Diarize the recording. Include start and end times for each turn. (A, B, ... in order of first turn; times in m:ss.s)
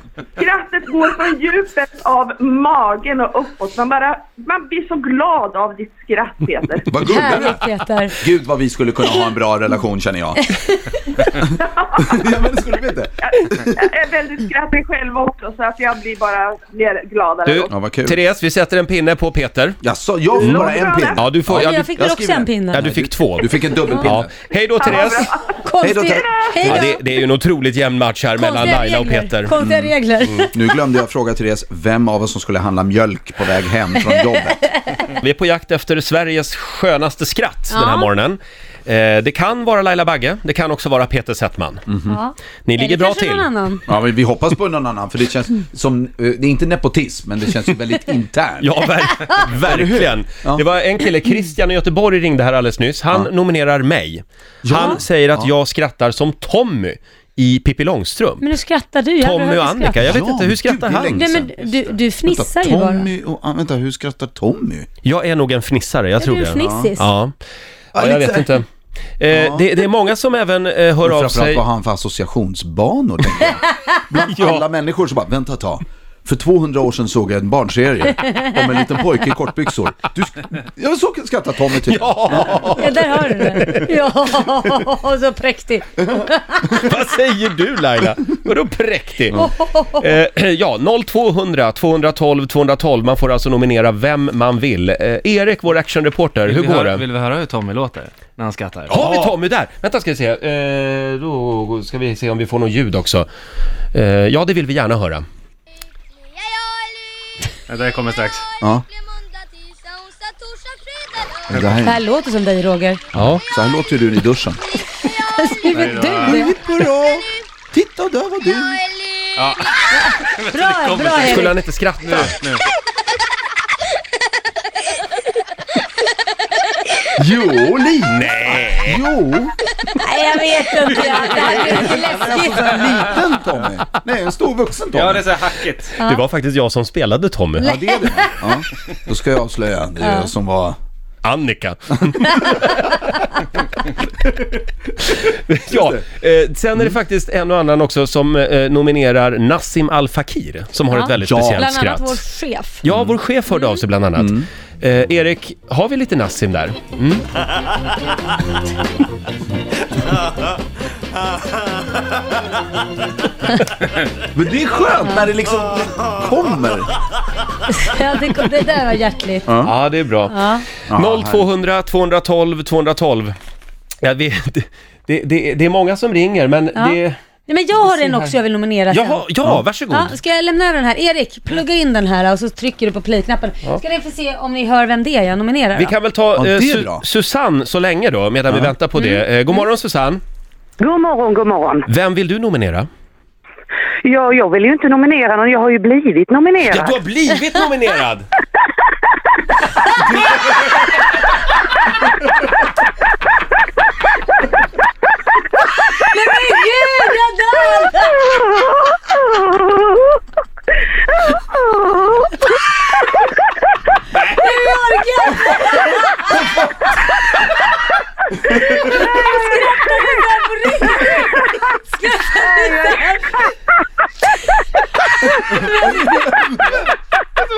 0:00.4-0:07.3 A
0:06.9-0:10.5 B
0:07.1-0:08.1 C
0:11.2-0:12.2 A
0:12.0-0:13.7 B
0:13.2-0:17.7 A
0:17.4-0:19.8 D
0:17.7-0:18.2 B
0:19.8-0:24.3 B
0:20.3-0:21.2 A
0:20.4-0:21.9 D
0:21.6-0:22.8 C
0:22.7-0:25.3 D
0:24.7-0:26.8 A
0:25.7-0:27.0 C
0:25.8-0:26.2 B
0:26.6-0:29.5 D
0:28.4-0:30.5 C
0:29.6-0:34.7 B
0:35.1-0:41.9 D
0:37.7-0:38.1 C
0:41.9-0:42.2 B
0:42.1-0:43.8 C
0:42.6-0:43.5 D
0:43.9-0:50.6 B
0:48.6-0:58.4 D
0:54.6-0:55.5 B
0:58.4-1:00.0 C
0:59.2-1:01.3 D
1:00.0-1:04.9 B
1:01.1-1:03.1 C
1:05.0-1:07.3 D
1:06.2-1:07.0 C
1:06.6-1:06.9 B
1:07.9-1:08.5 B
1:07.9-1:08.6 D
1:09.2-1:11.6 D
1:09.3-1:09.7 B
1:11.0-1:22.9 B
1:14.3-1:14.6 D
1:21.8-1:24.2 D
1:22.8-1:26.6 C
1:26.6-1:37.0 D
1:29.4-1:30.1 C
1:36.5-1:39.3 E
1:38.9-1:43.3 D
1:43.9-1:45.2 D
1:47.7-1:48.5 E
1:48.6-1:48.8 B
1:51.5-1:52.0 B
1:51.8-1:53.0 C
1:53.1-1:53.4 D
1:53.4-1:54.6 B
1:55.3-1:56.5 C
1:55.7-1:56.5 E
1:56.2-1:58.9 B
1:59.3-2:01.5 E
2:00.5-2:01.5 C
2:01.2-2:02.4 D
2:02.0-2:02.6 E
2:07.1-2:09.6 B
2:08.1-2:09.0 D
2:09.9-2:12.8 C
2:11.0-2:12.1 E
2:11.7-2:15.4 B
2:14.9-2:15.9 E
2:16.0-2:17.8 D
2:17.6-2:20.8 B
2:17.6-2:18.3 C
2:20.0-2:20.3 C
2:21.2-2:23.0 D
2:25.0-2:32.2 D
2:30.9-2:32.8 C
2:31.2-2:31.7 B
2:32.8-2:37.2 D
2:32.9-2:33.2 B
2:34.2-2:34.5 B
2:44.3-2:46.9 B
2:47.8-2:49.5 C
2:49.4-2:49.7 B
2:49.6-2:50.4 D
2:50.3-2:50.6 C
2:50.9-2:51.5 B
2:50.9-2:53.3 D
2:54.0-2:57.2 D
2:56.7-2:59.2 C
2:57.9-2:58.3 D
2:58.9-3:00.1 D
2:59.9-3:05.9 C
3:05.7-3:10.2 D
3:06.4-3:07.0 B
3:09.0-3:09.2 C
3:10.8-3:11.8 F
3:11.9-3:12.9 D
3:14.0-3:17.0 F
3:16.7-3:18.3 D
3:20.0-3:20.6 D
3:25.9-3:28.5 C
3:34.3-3:36.5 C
3:38.4-3:43.4 C
3:45.2-3:46.5 C